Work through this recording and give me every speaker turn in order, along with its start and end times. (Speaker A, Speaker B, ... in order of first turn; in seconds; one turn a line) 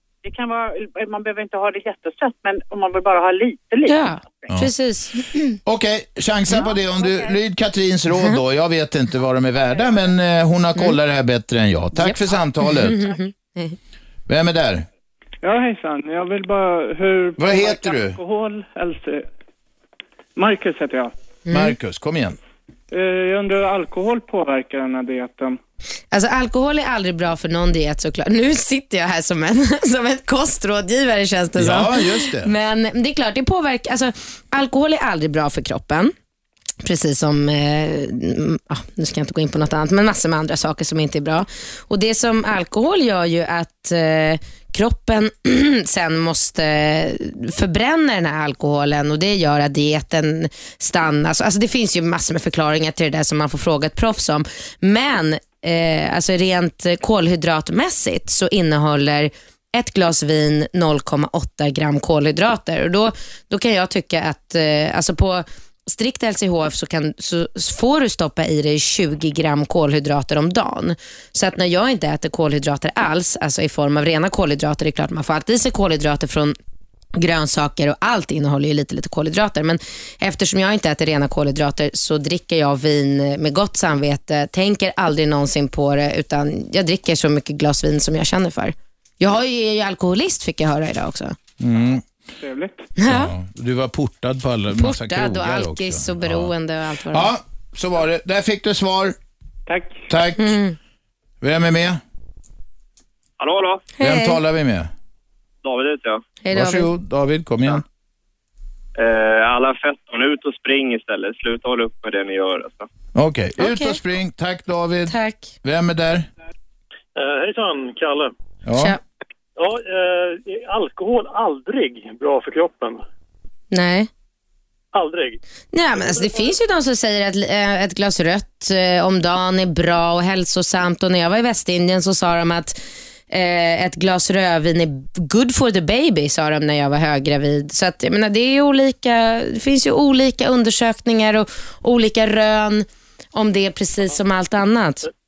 Speaker A: 0.2-4.5
Speaker B: 3.9-5.6
Speaker C: 5.6-13.1
Speaker A: 6.7-7.3
Speaker B: 8.1-8.4
Speaker B: 11.9-13.8
Speaker C: 14.3-14.8
Speaker D: 15.4-19.3
Speaker C: 17.4-18.2
Speaker D: 20.4-21.1
Speaker B: 21.5-21.7
Speaker C: 21.5-22.4
Speaker D: 22.9-25.6
Speaker B: 26.1-36.1
Speaker C: 31.6-32.5
Speaker B: 36.8-76.5
Speaker B: 77.2-91.3
Speaker C: 91.6-92.0
Speaker D: 92.4-92.9
Speaker B: 93.0-93.3
Speaker C: 93.0-96.5
Speaker B: 94.7-97.3
Speaker C: 97.1-99.1
Speaker D: 99.7-100.0
Speaker C: 100.1-100.5
Speaker B: 100.4-100.8
Speaker C: 101.4-102.0
Speaker E: 103.4-103.9
Speaker B: 104.0-104.4
Speaker C: 104.0-104.9
Speaker E: 105.6-106.2
Speaker B: 106.4-106.9
Speaker C: 106.5-107.8
Speaker E: 109.0-112.8
Speaker C: 113.1-116.3
Speaker B: 113.6-114.0
Speaker B: 115.1-115.5
Speaker F: 117.2-118.2
Speaker C: 118.7-119.0
Speaker F: 119.6-123.0
Speaker B: 123.7-124.1
Speaker F: 124.9-125.4
Speaker B: 125.7-145.1